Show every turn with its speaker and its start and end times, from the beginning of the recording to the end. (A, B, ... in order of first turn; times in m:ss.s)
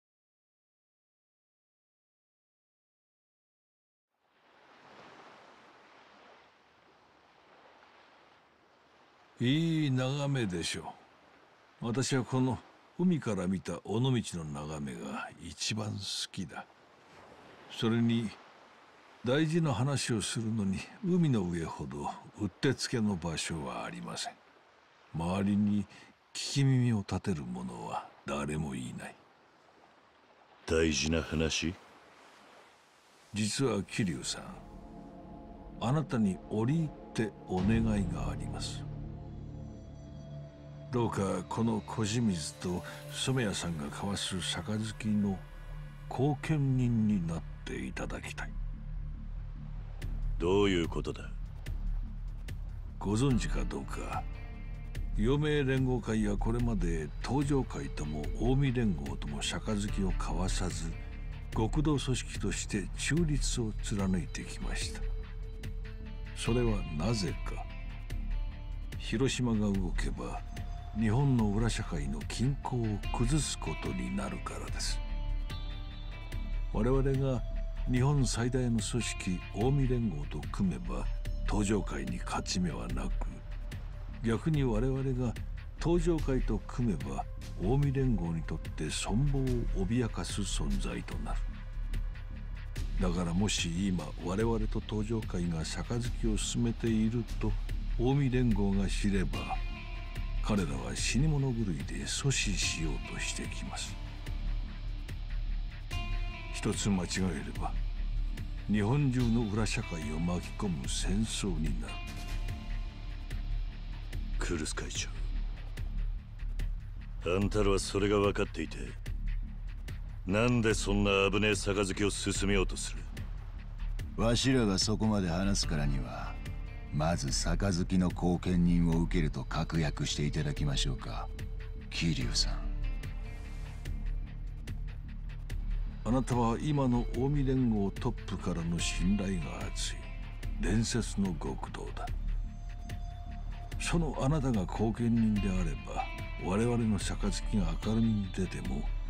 0:09.4-0:11.0 A
0:11.8-0:16.7 A
0:17.7-0:18.4 A
0:19.2-0:24.4 A
0:25.1-0:29.2 A
0:30.7-0:31.8 B
0:33.3-0:34.6 A
0:35.8-0:38.8 A
0:40.9-0:45.5 A
0:46.1-0:48.5 A
0:50.4-0:51.3 B
0:53.0-0:54.3 A
0:55.2-1:01.0 A
1:01.5-1:05.0 A
1:06.3-1:07.7 A
1:09.0-1:15.0 A
1:16.7-1:23.5 A
1:24.2-1:31.4 A
1:33.0-1:39.6 A
1:40.4-1:44.0 A
1:46.5-1:47.8 A
1:48.7-1:52.0 A
1:54.4-1:55.2 B
1:57.2-1:59.0 B
2:00.2-2:03.1 B
2:04.2-2:06.4 C
2:06.9-2:11.3 C
2:11.9-2:12.7 C
2:16.0-2:20.1 A
2:20.6-2:22.1 A
2:23.8-2:28.9 A